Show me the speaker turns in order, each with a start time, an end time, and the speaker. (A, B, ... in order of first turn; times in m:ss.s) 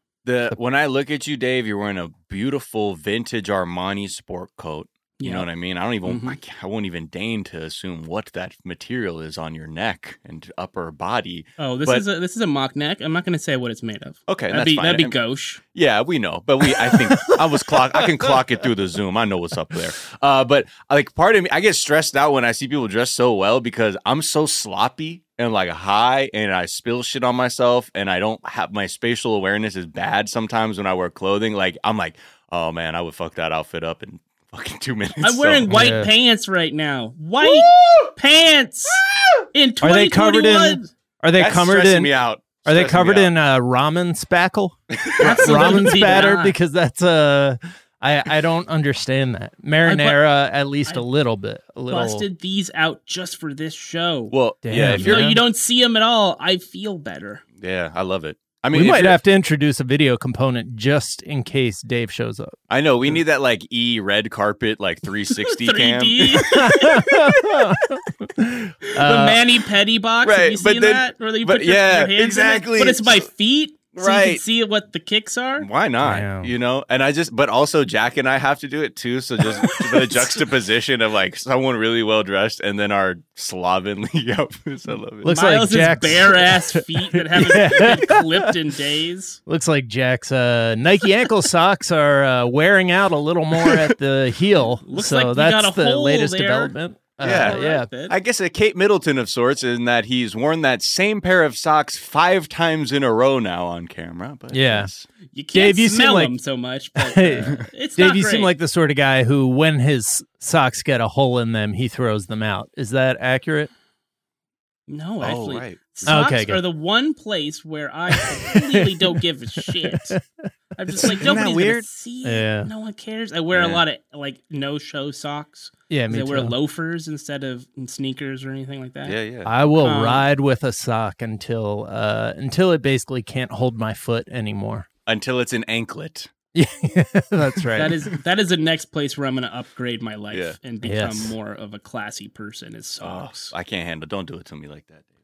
0:00.2-0:12.0 A
0:05.2-0:05.5 B
0:06.0-0:06.4 B
0:11.6-0:15.6 B
0:14.3-0:15.1 A
0:15.7-0:35.8 A
0:35.2-0:39.0 B
0:35.7-0:36.1 C
0:37.4-0:38.1 A
0:38.9-0:39.5 A
0:39.5-0:40.9 B
0:39.8-0:42.1 C
0:41.4-0:43.3 A
0:42.6-0:52.2 C
0:44.9-0:46.2 A
0:45.2-0:46.6 B
0:49.8-0:50.2 B
0:51.9-0:57.4 B
0:54.3-0:55.3 A
0:54.6-0:55.4 C
0:57.6-0:59.2 A
0:58.7-1:03.2 C
1:02.7-1:07.7 A
1:05.4-1:07.1 B
1:06.4-1:09.4 C
1:08.9-1:15.7 B
1:10.2-1:13.3 A
1:13.9-1:14.4 A
1:15.6-1:25.3 A
1:16.0-1:16.5 C
1:19.6-1:20.2 C
1:25.2-1:28.4 C
1:25.3-1:29.4 B
1:29.5-1:37.9 C
1:34.8-1:38.1 B
1:37.2-1:45.1 A
1:44.5-1:44.9 C
1:45.3-1:48.5 B
1:45.5-1:46.3 C
1:47.0-1:53.7 C
1:54.9-2:00.2 B
1:55.2-1:56.2 A
1:56.1-1:56.6 C
1:58.2-1:59.2 C
1:59.8-2:00.4 C
2:00.8-2:09.2 B
2:01.0-2:01.8 A
2:01.0-2:01.3 C
2:02.2-2:02.7 C
2:03.5-2:03.8 A
2:05.9-2:06.5 C
2:09.0-2:09.5 A
2:09.4-2:14.8 C
2:09.8-2:10.3 B
2:15.0-2:16.3 A
2:16.5-2:17.9 C
2:17.8-2:23.5 B
2:20.3-2:20.6 A
2:20.8-2:21.4 C
2:23.0-2:25.0 A